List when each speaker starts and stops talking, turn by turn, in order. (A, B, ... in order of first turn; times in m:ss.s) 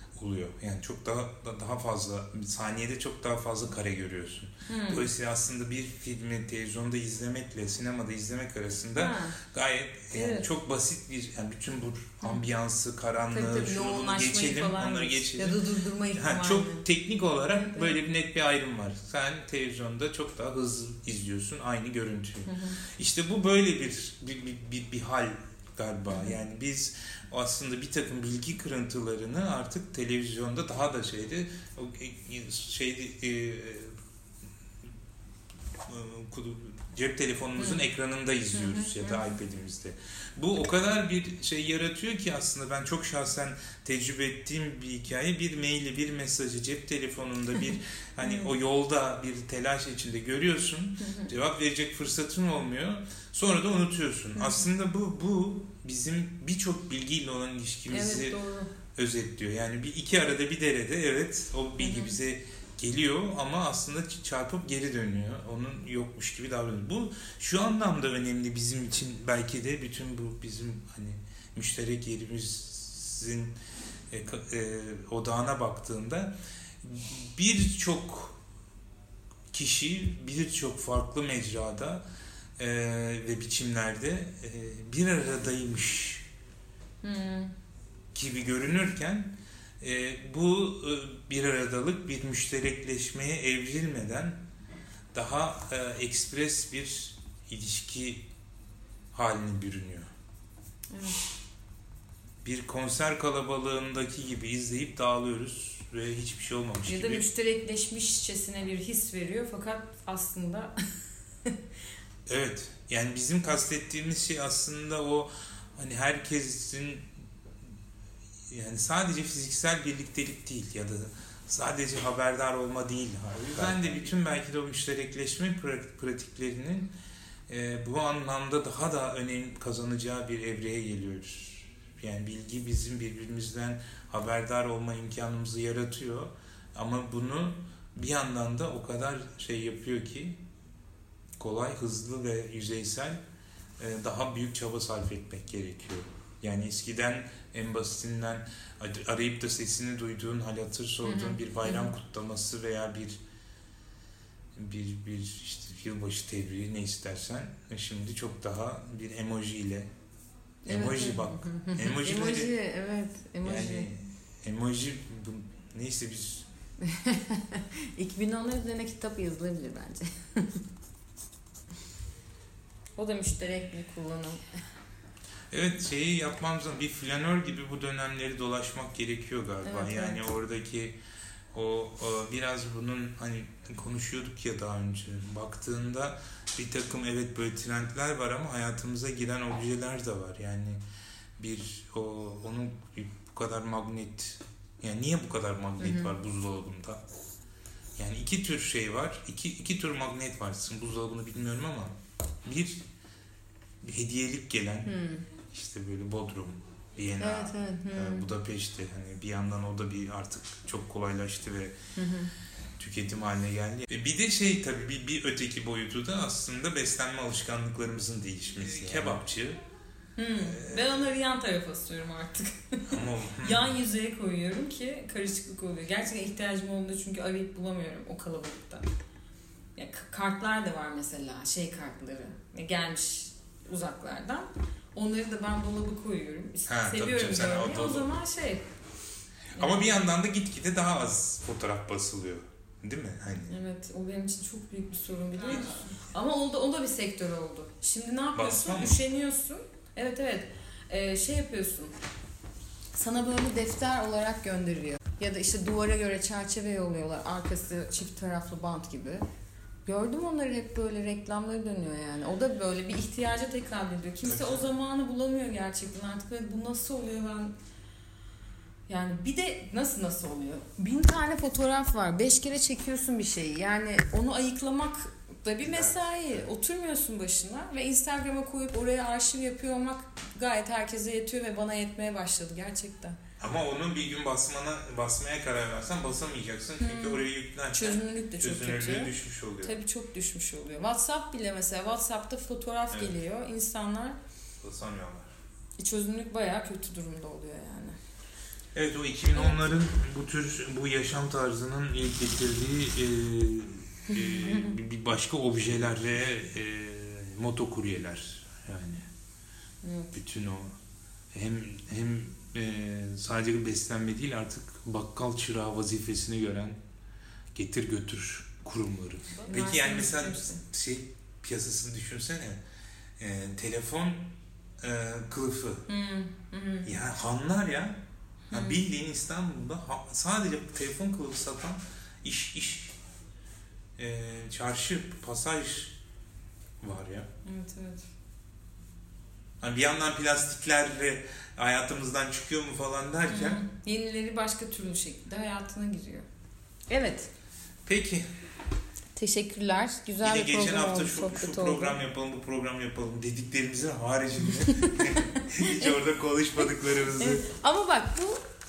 0:00.2-0:15.6 A
0:04.7-0:05.1 B
0:09.0-0:09.4 B
0:10.1-0:10.5 B
0:13.3-0:16.8 B
0:16.1-0:34.0 A
0:17.5-0:18.0 B
0:22.5-0:22.8 B
0:35.8-0:58.4 A
0:37.6-0:37.8 B
0:38.5-0:39.3 B
0:48.2-0:48.5 B
0:51.0-0:51.3 B
0:54.3-0:54.7 B
0:57.9-0:58.7 B
0:59.0-1:13.6 A
1:01.8-1:02.1 B
1:14.1-1:18.4 A
1:19.5-1:22.0 A
1:22.6-1:26.2 A
1:27.0-1:27.5 B
1:28.1-1:34.4 A
1:35.1-1:38.2 A
1:39.1-1:40.1 A
1:40.9-1:41.2 B
1:42.4-1:47.2 A
1:46.8-1:50.7 B
1:52.3-1:57.1 A
1:58.5-2:06.9 A
2:07.5-2:20.4 A
2:21.4-2:23.2 A
2:23.8-2:33.2 A
2:31.0-2:31.9 B
2:34.5-2:39.9 A
2:40.6-2:43.9 B
2:40.6-2:42.6 A
2:43.4-2:46.5 A
2:46.8-2:50.6 B
2:53.0-2:54.4 B
2:55.5-3:01.0 A
2:59.6-3:00.2 B
3:01.5-3:10.8 A
3:11.4-3:17.0 A
3:15.8-3:16.1 B
3:18.0-3:22.8 A
3:23.8-3:31.8 A
3:24.8-3:25.2 B
3:27.2-3:28.3 B
3:32.0-3:32.3 B
3:32.8-3:39.6 A
3:40.2-3:48.8 B
3:40.4-3:41.0 A
3:42.9-3:43.7 A
3:49.8-3:58.6 B
3:56.7-3:58.1 A
3:59.5-4:00.0 B
3:59.6-4:03.6 A
4:03.5-4:11.9 B
4:05.5-4:05.8 A
4:08.3-4:09.0 A
4:12.9-4:19.2 B
4:19.8-4:27.5 B
4:24.2-4:24.6 A
4:28.9-4:43.2 B
4:35.6-4:36.4 A
4:43.4-4:49.8 A
4:46.8-4:54.2 B
4:54.6-4:55.3 A
4:55.8-4:58.0 B
4:58.7-5:09.1 A
5:04.1-5:04.7 B
5:09.8-5:10.2 B
5:10.1-5:10.7 A
5:11.3-5:16.8 A
5:17.5-5:22.6 A
5:19.3-5:20.6 B
5:23.2-5:25.8 A
5:25.9-5:26.9 B
5:26.8-5:33.0 A
5:28.5-5:28.8 B
5:34.0-5:36.0 A
5:36.8-5:37.3 A
5:37.4-5:38.1 B
5:39.6-5:43.6 A
5:43.3-5:46.2 B
5:46.9-5:47.3 B
5:47.8-5:48.2 A
5:49.2-5:52.0 B
5:50.2-5:57.4 A
5:54.6-5:55.9 B
5:57.1-5:58.4 B